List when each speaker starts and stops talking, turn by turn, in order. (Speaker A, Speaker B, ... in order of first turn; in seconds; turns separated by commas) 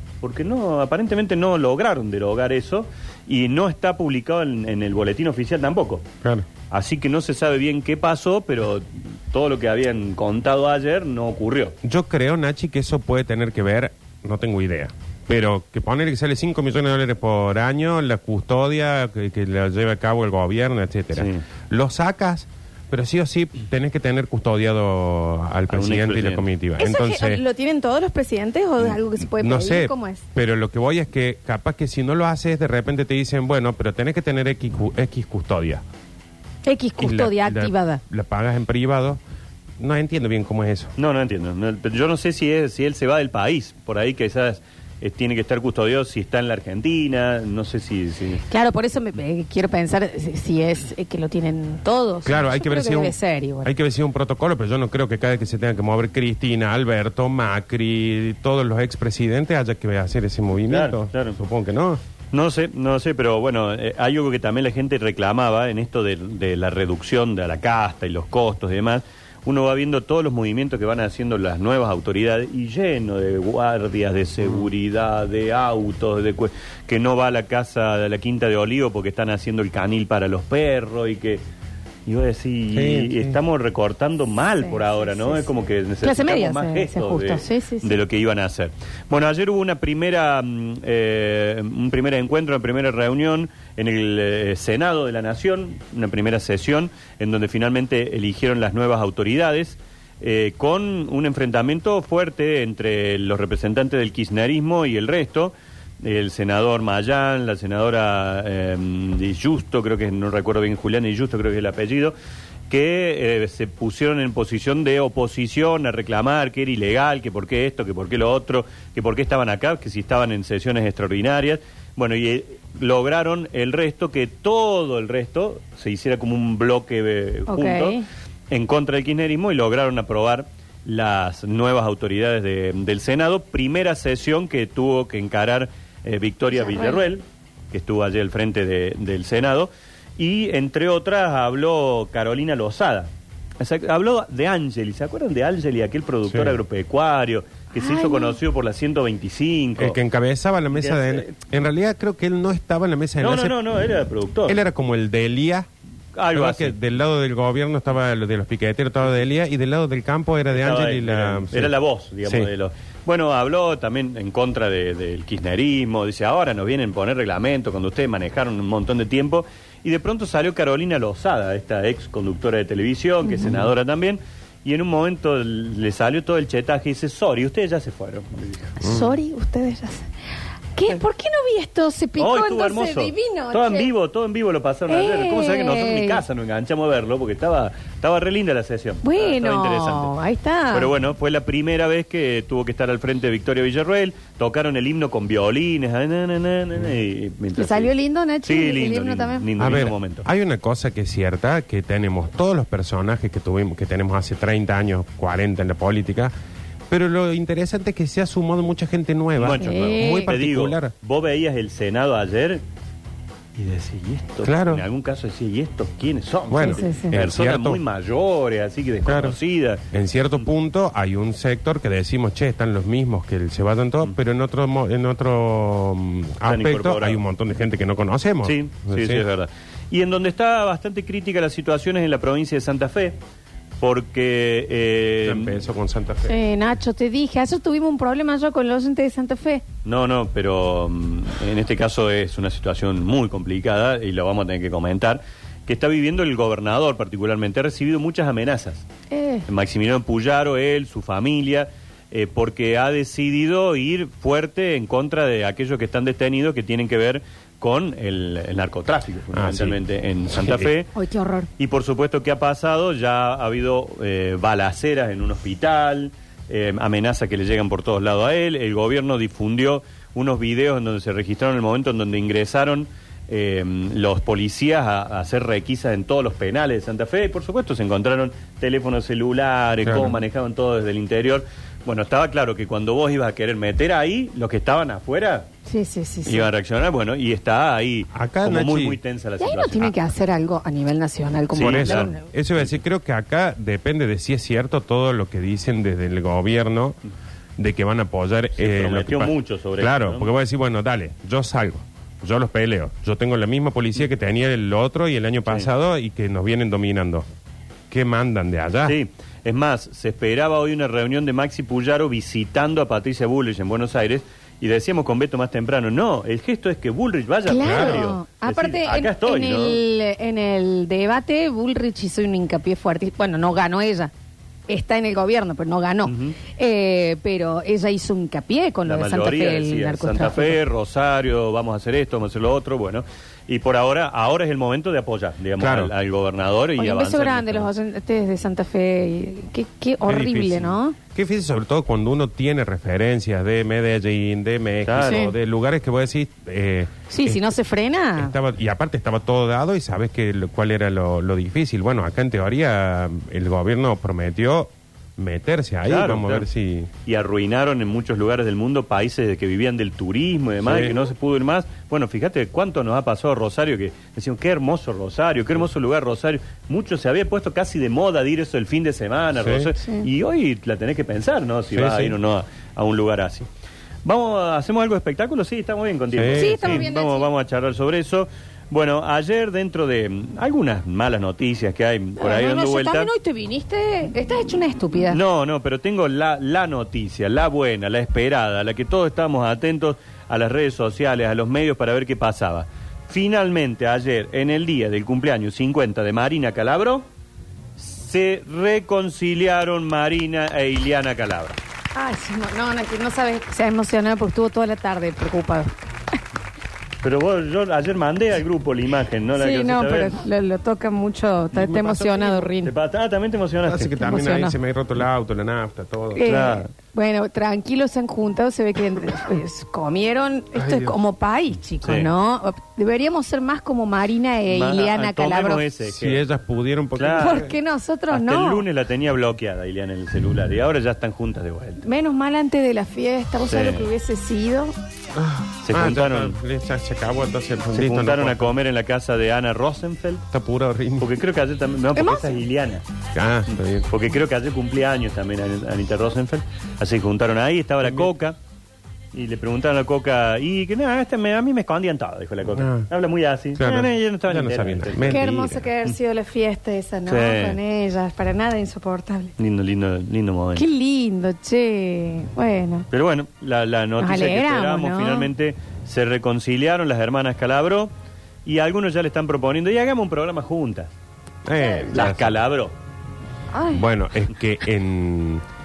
Speaker A: 0.2-6.0, Speaker A: 6.7-11.7, Speaker B: 11.8-27.4, Speaker A: 21.1-21.4, Speaker A: 25.7-26.5, Speaker C: 26.8-30.2, Speaker B: 28.9-35.8, Speaker C: 36.6-38.0, Speaker B: 37.0-39.2, Speaker B: 39.8-40.9, Speaker A: 41.0-48.4, Speaker C: 48.5-53.7, Speaker B: 52.2-62.0, Speaker A: 60.7-61.4, Speaker A: 62.3-81.4, Speaker A: 82.0-112.1, Speaker B: 82.7-83.4, Speaker C: 84.6-85.4, Speaker C: 86.0-88.0, Speaker A: 112.7-128.0, Speaker C: 127.5-128.0, Speaker A: 128.5-150.0, Speaker C: 136.5-137.0, Speaker B: 146.3-146.6, Speaker C: 147.7-148.4, Speaker B: 149.8-153.6, Speaker A: 150.7-151.3, Speaker A: 153.2-154.6, Speaker B: 154.5-155.7, Speaker A: 156.1-156.8, Speaker B: 156.3-161.7, Speaker A: 160.5-178.7, Speaker B: 162.2-162.5, Speaker C: 173.2-173.6, Speaker C: 178.8-180.1, Speaker B: 178.8-179.1, Speaker C: 180.7-183.9, Speaker A: 182.2-190.1, Speaker C: 184.9-186.2, Speaker C: 189.0-190.9, Speaker A: 190.7-197.9, Speaker C: 197.5-199.5, Speaker A: 198.4-200.2, Speaker B: 199.6-206.3, Speaker B: 206.9-210.9, Speaker A: 209.4-212.6, Speaker C: 209.6-210.3, Speaker A: 213.6-219.8, Speaker B: 214.4-214.8, Speaker B: 216.5-217.8, Speaker C: 216.6-217.1, Speaker B: 219.1-219.4, Speaker B: 219.9-229.2, Speaker A: 226.4-227.2, Speaker A: 228.4-233.2, Speaker A: 233.8-235.6, Speaker B: 235.2-236.4, Speaker C: 236.3-239.6, Speaker A: 239.8-248.8, Speaker C: 249.1-249.4, Speaker A: 249.5-260.9, Speaker B: 259.3-260.7, Speaker C: 260.9-261.5, Speaker A: 261.6-285.5, Speaker B: 279.8-280.2, Speaker C: 285.6-286.5, Speaker A: 286.2-289.9, Speaker B: 288.1-289.0, Speaker C: 289.4-292.2, Speaker A: 291.5-292.7, Speaker B: 291.6-297.0, Speaker B: 297.6-307.2, Speaker A: 298.6-300.3, Speaker B: 307.9-309.0, Speaker A: 308.9-319.8, Speaker C: 317.4-324.1, Speaker B: 317.6-318.1, Speaker C: 324.7-330.6, Speaker A: 326.1-326.4, Speaker A: 328.9-337.7, Speaker B: 335.6-335.9, Speaker C: 336.8-340.9, Speaker B: 340.0-347.5, Speaker A: 344.9-345.2, Speaker C: 345.0-345.3, Speaker C: 347.1-348.3, Speaker B: 348.2-356.9, Speaker A: 355.8-356.5, Speaker A: 357.1-373.5, Speaker B: 360.6-360.9, Speaker B: 369.4-369.7, Speaker B: 371.7-372.2, Speaker A: 374.0-383.1, Speaker B: 376.1-376.9, Speaker C: 376.3-377.3, Speaker C: 382.2-385.2, Speaker A: 385.1-397.1, Speaker A: 397.8-401.6, Speaker C: 401.9-405.7, Speaker A: 407.0-410.2, Speaker C: 409.4-412.7, Speaker B: 411.6-412.4, Speaker A: 412.6-414.0, Speaker B: 413.6-416.3, Speaker C: 414.0-414.6, Speaker C: 416.1-425.6, Speaker A: 416.2-416.7, Speaker B: 420.5-421.0, Speaker A: 421.8-422.1, Speaker A: 424.5-426.2, Speaker B: 425.9-427.5, Speaker A: 427.0-427.5, Speaker C: 427.2-428.6, Speaker A: 428.1-431.8, Speaker C: 431.8-434.7, Speaker A: 433.5-433.9, Speaker B: 435.1-438.5, Speaker A: 435.6-436.4, Speaker A: 437.7-440.2, Speaker B: 440.3-441.2, Speaker A: 441.0-442.8, Speaker C: 441.9-442.4, Speaker B: 443.1-443.9, Speaker A: 443.9-448.4, Speaker A: 449.1-455.9, Speaker B: 452.6-452.9, Speaker B: 453.6-455.6, Speaker C: 455.1-459.3, Speaker A: 457.1-457.6, Speaker A: 459.4-460.6, Speaker C: 460.6-462.9, Speaker A: 462.9-467.9, Speaker C: 464.0-465.3, Speaker A: 468.4-470.9, Speaker B: 471.4-472.4, Speaker A: 471.9-472.7, Speaker C: 473.5-473.8, Speaker B: 473.7-475.4